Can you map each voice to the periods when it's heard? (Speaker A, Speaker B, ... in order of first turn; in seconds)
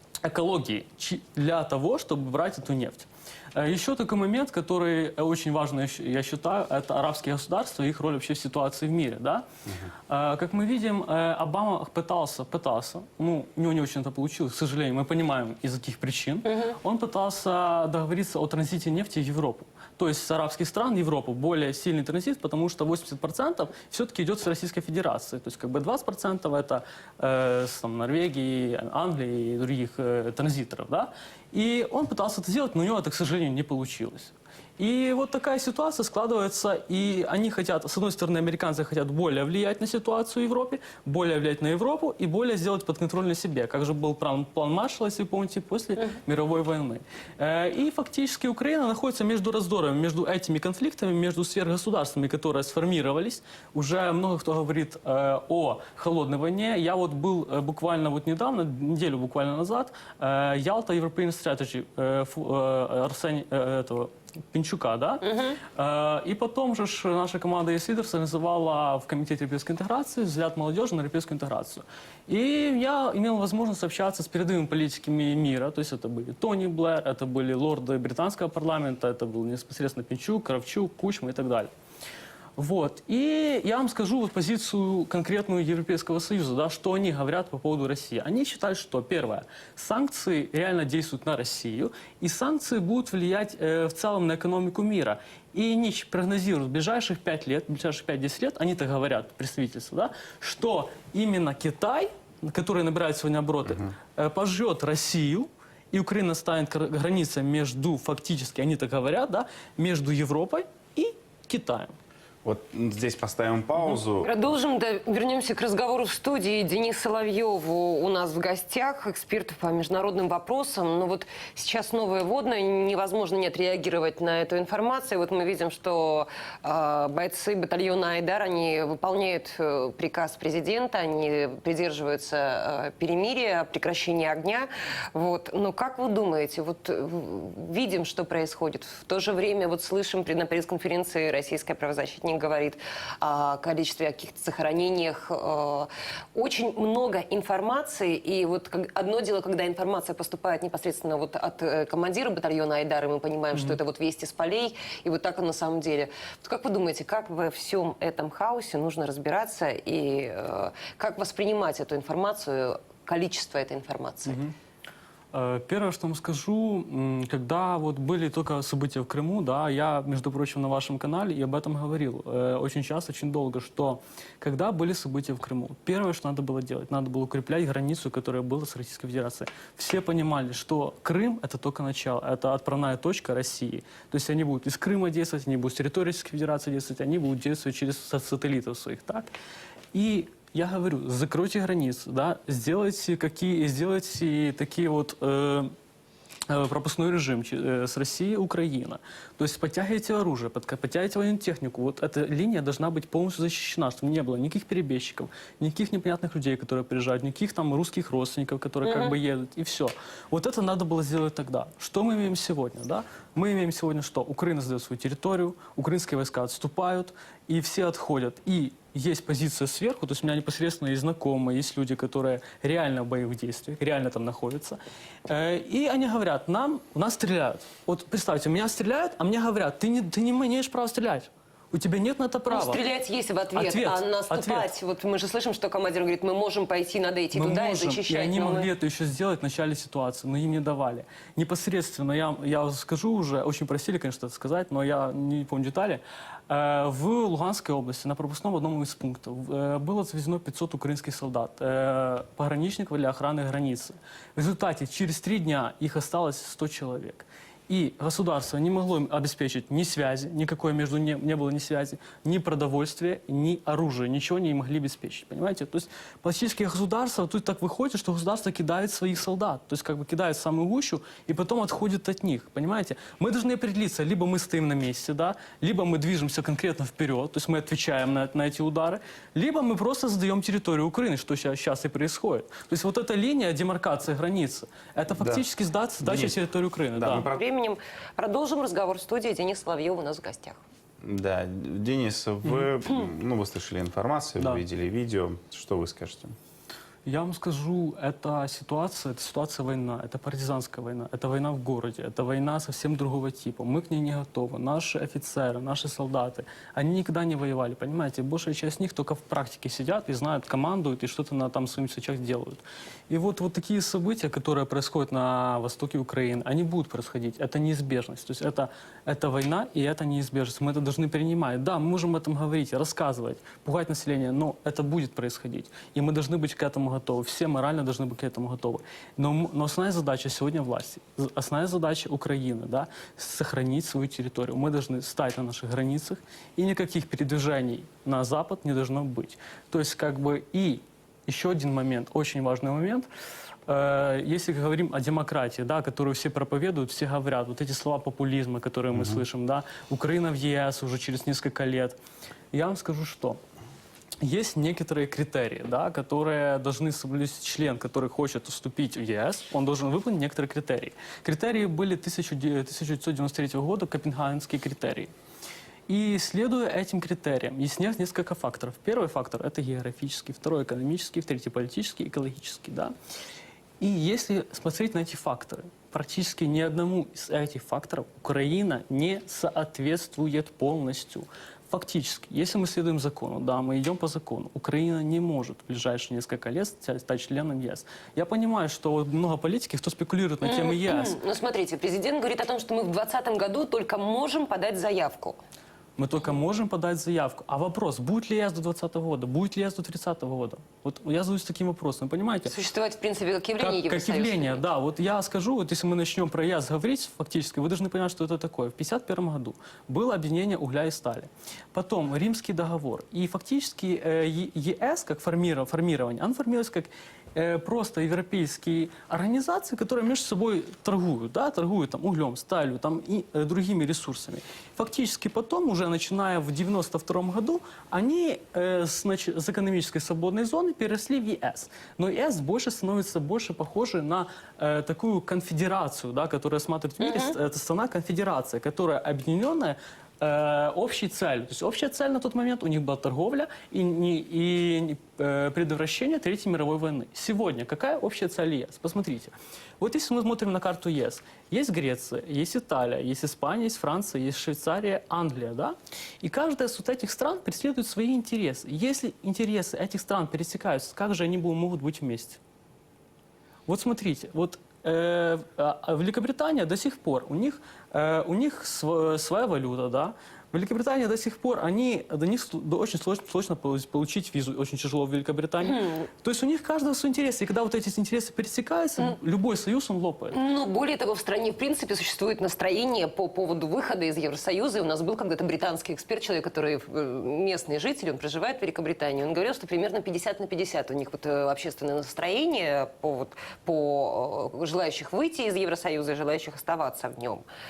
Speaker A: 0.2-9.4, 10.1-81.7, 82.6-112.0, 153.5-153.8, 164.2-164.5, 165.3-189.3, 189.9-195.7, 196.5-232.8, 233.5-234.7, 237.3-287.3, 297.1-343.1, 343.7-352.0, 352.5-353.4, 354.2-365.1, 365.9-372.9, 373.8-391.1, 396.0-402.6, 403.6-462.4, 463.7-480.4
Speaker B: 16.5-16.8, 65.2-65.6, 113.9-164.4, 208.8-209.2, 232.5-238.7, 287.3-290.6, 390.4-395.4, 402.4-404.6, 437.0-437.4, 475.6-476.1, 480.3-497.4
Speaker C: 112.4-114.3, 285.1-285.4, 286.0-286.4, 286.9-287.4, 291.0-296.3, 348.9-349.2